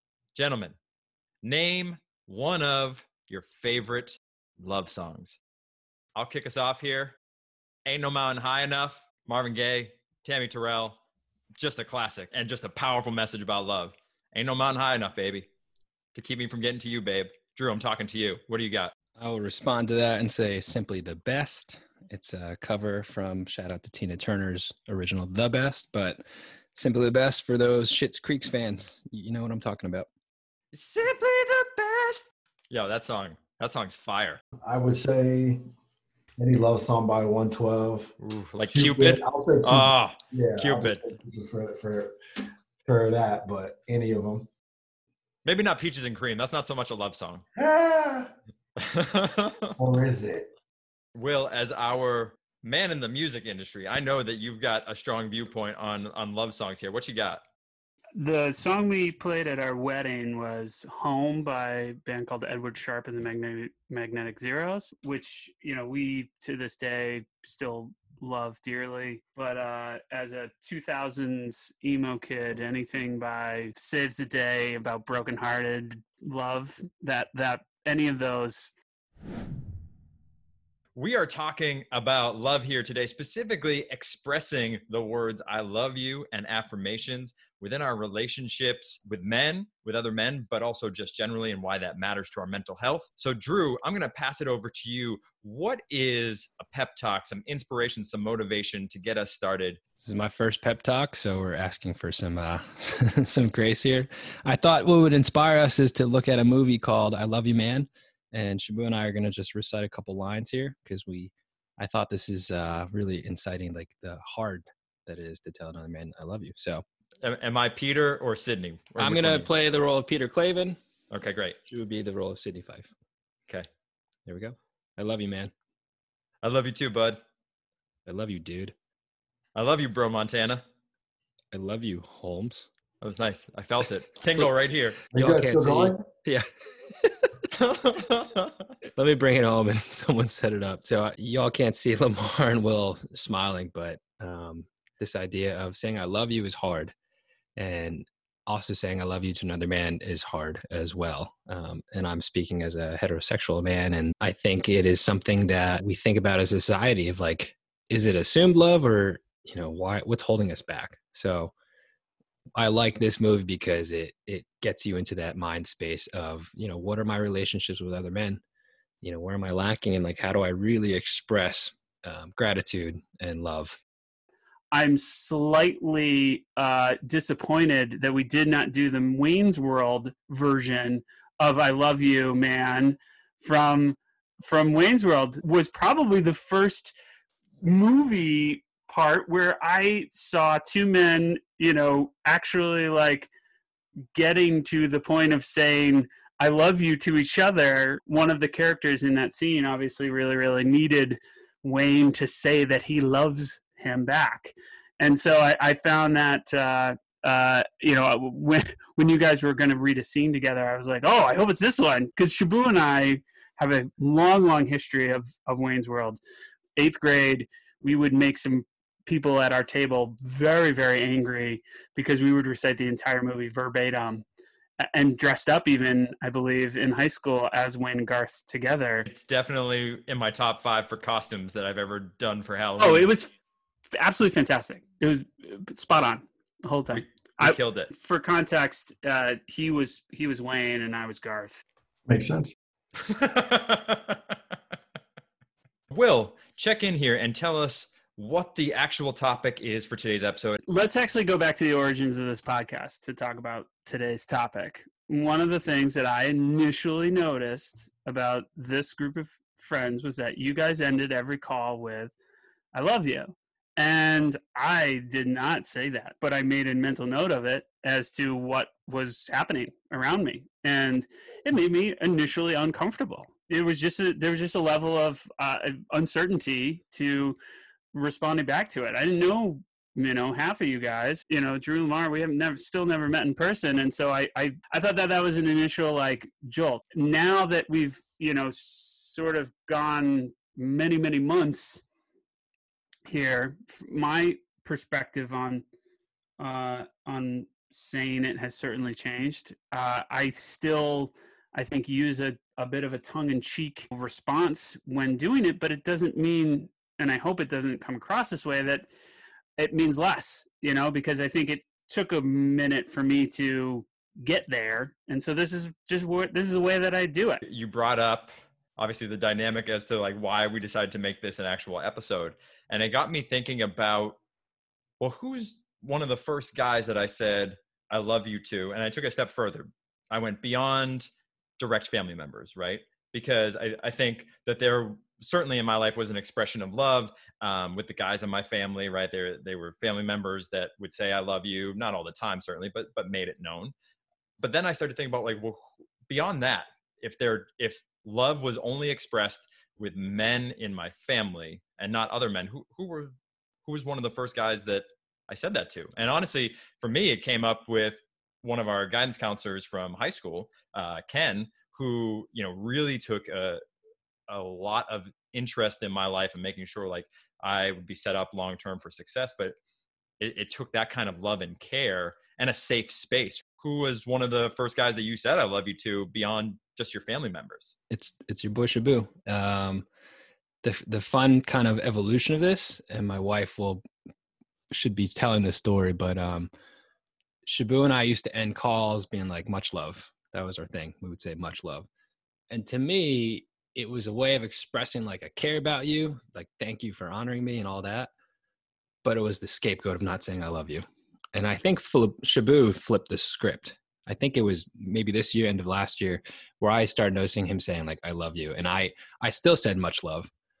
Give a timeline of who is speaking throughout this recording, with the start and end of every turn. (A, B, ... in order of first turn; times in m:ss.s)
0:00.3-0:00.8 A
0:01.4-0:05.4 A
0:06.2-0:07.2 A
0:07.8-0:11.0 A
0:11.6-0:15.5 A
0:16.1-0:18.9 A
0:19.2-0:26.2 B
0:26.7-0:30.1 B
0:30.7-0:34.4 A
0:34.6-0:35.6 C
0:36.4-0:38.1 C
0:38.2-0:41.0 A
0:38.7-0:44.5 C
0:45.4-0:47.4 A
0:47.6-0:48.3 C
0:48.8-0:49.8 A
0:49.8-0:50.5 C
0:51.1-0:57.4 A
0:58.2-1:18.7 D
1:21.0-1:39.8 A
1:40.0-1:56.8 B
1:57.2-1:59.5 A
1:59.0-2:00.8 B
2:01.1-2:01.6 A
2:01.6-2:02.9 B
2:04.2-2:05.5 B
2:06.4-2:07.2 A
2:08.0-2:08.7 B
2:09.5-2:10.6 A
2:11.5-2:12.7 B
2:13.0-2:15.0 A
2:15.1-2:16.0 C
2:15.1-2:17.3 B
2:17.5-2:18.7 A
2:18.9-2:26.9 B
2:27.6-2:41.5 B
2:42.5-2:48.4 B
2:49.0-2:53.8 B
2:54.7-3:06.9 D
3:07.6-3:13.3 D
3:14.1-3:36.2 D
3:36.8-3:44.2 D
3:44.8-3:49.1 D
3:49.1-3:53.1 A
3:52.8-3:53.3 D
3:53.9-4:01.6 D
3:57.4-3:57.9 A
4:02.1-4:02.5 C
4:03.0-4:04.2 A
4:05.9-4:10.6 A
4:10.7-4:22.1 D
4:22.7-4:37.4 D
4:37.9-4:51.8 D
4:53.0-4:55.6 D
4:56.4-5:08.9 D
5:09.6-5:17.4 D
5:17.4-5:24.2 A
5:25.0-5:43.7 A
5:44.4-5:53.1 A
5:53.6-6:03.6 A
6:04.3-6:09.5 A
6:10.2-6:17.7 A
6:17.9-6:19.8 B
6:20.6-6:23.8 B
6:24.7-6:26.5 B
6:27.4-6:31.9 B
6:32.5-6:38.1 B
6:39.0-6:50.3 B